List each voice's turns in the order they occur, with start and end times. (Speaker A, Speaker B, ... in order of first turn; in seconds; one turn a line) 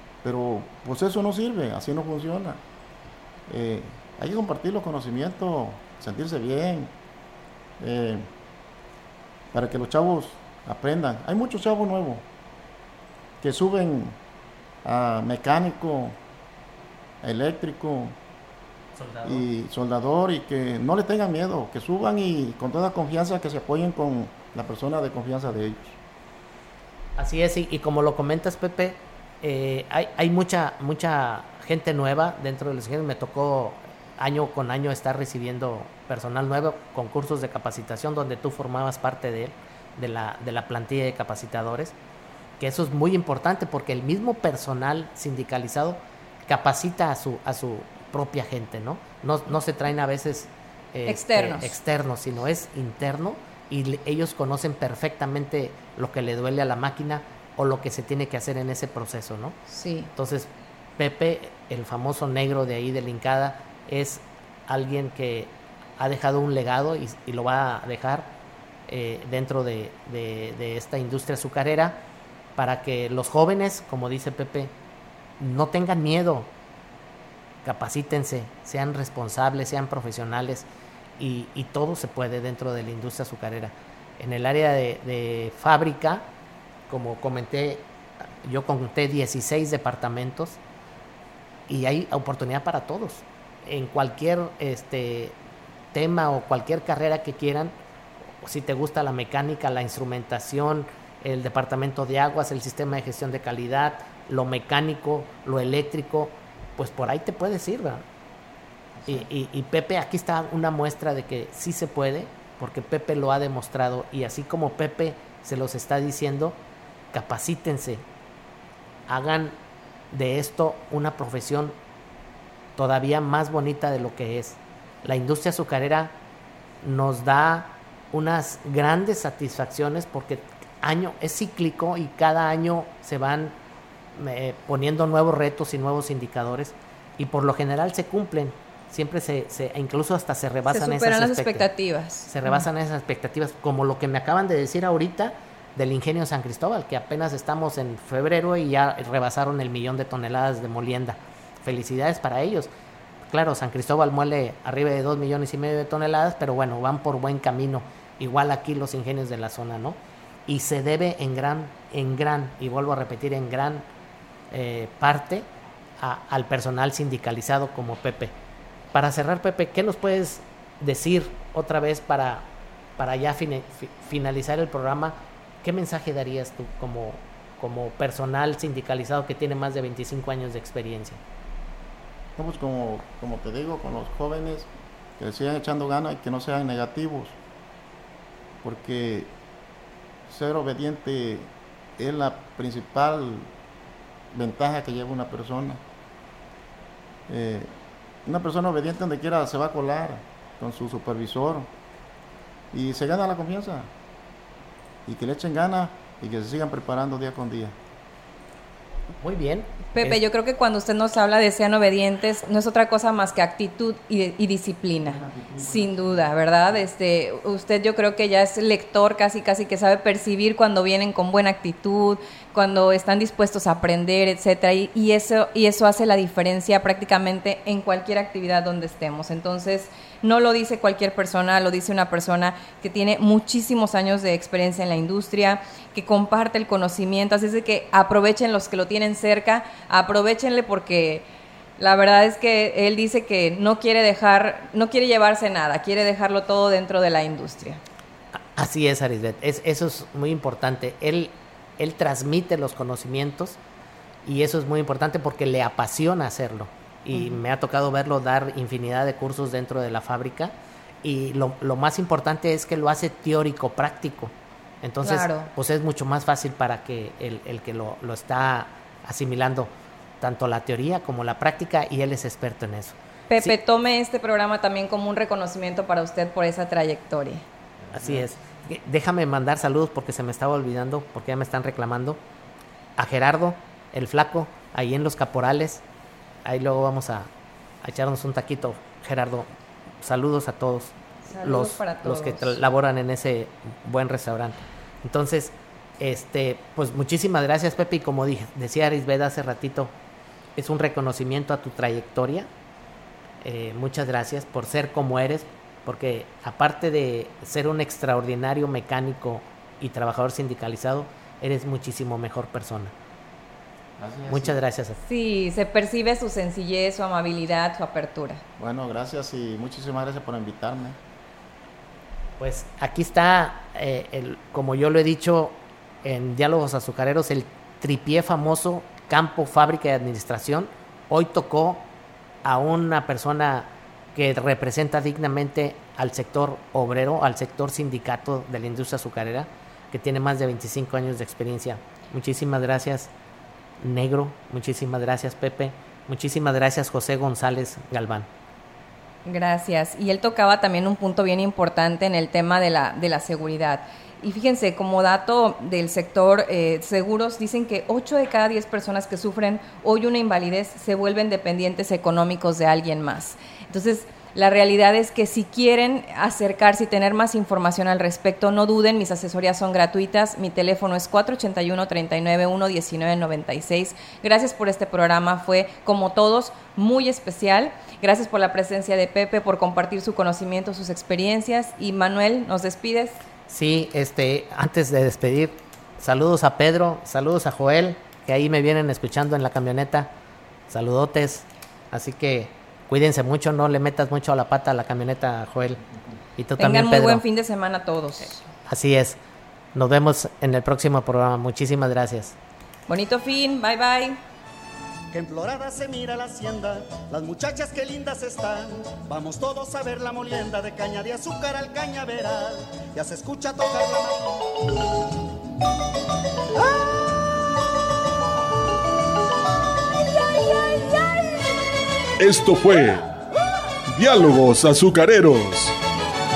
Speaker A: 0.2-2.6
Speaker A: 3.5-6.9
Speaker A: 7.8-8.3
Speaker A: 9.5-12.2
Speaker A: 13.4-14.2
Speaker A: 14.8-16.2
Speaker A: 17.2-18.2
Speaker B: 18.9-19.4
Speaker A: 19.2-26.0
Speaker B: 27.2-41.9
Speaker B: 42.6-59.6
Speaker C: 51.0-51.7
Speaker C: 59.7-60.1
Speaker B: 60.1-68.3
Speaker B: 68.9-72.0
Speaker B: 72.6-74.7
Speaker B: 75.4-76.5
Speaker B: 77.6-80.7
Speaker B: 81.2-86.2
Speaker B: 86.9-87.8
Speaker B: 88.4-90.6
Speaker B: 91.7-95.4
Speaker B: 95.9-97.7
Speaker B: 98.4-108.0
Speaker A: 109.0-109.2
Speaker B: 109.1-116.6
Speaker B: 117.1-118.0
Speaker B: 119.1-119.5
Speaker B: 120.1-121.7
Speaker B: 122.8-126.2
Speaker B: 126.8-133.5
Speaker B: 134.1-141.7
Speaker C: 140.7-142.6
Speaker B: 142.3-152.7
Speaker B: 153.3-163.8
Speaker B: 164.5-165.5
Speaker B: 166.0-168.3
Speaker B: 168.9-172.5
Speaker B: 173.0-181.2
Speaker A: 182.4-187.4
Speaker A: 188.6-189.3
Speaker A: 190.3-193.5
Speaker A: 194.3-195.8
Speaker A: 197.3-197.7
Speaker A: 198.2-201.7
Speaker A: 202.7-203.9
Speaker A: 205.1-207.7
Speaker B: 209.2-210.2
Speaker C: 209.9-241.3
Speaker A: 215.0-216.8
Speaker C: 241.8-247.8
Speaker B: 248.6-253.6
Speaker B: 254.2-273.6
Speaker C: 257.1-257.4
Speaker C: 265.0-265.5
Speaker C: 273.3-277.4
Speaker B: 277.9-282.2
Speaker B: 283.0-285.8
Speaker B: 286.4-287.3
Speaker B: 287.8-289.5
Speaker B: 290.0-299.9
Speaker C: 291.3-292.6
Speaker B: 300.6-302.5
Speaker B: 303.4-312.9
Speaker A: 314.0-314.6
Speaker B: 314.3-315.0
Speaker C: 315.0-318.4
Speaker A: 318.6-321.0
Speaker B: 322.4-331.9
Speaker B: 332.4-343.1
Speaker B: 343.8-348.3
Speaker C: 349.2-383.2
Speaker B: 383.5-390.1
Speaker B: 390.7-395.8
Speaker B: 396.4-397.2
Speaker C: 396.6-398.5
Speaker B: 398.6-399.2
Speaker B: 399.7-402.4
Speaker C: 402.9-404.2
Speaker D: 405.1-414.4
Speaker E: 422.2-423.1
Speaker E: 423.9-425.8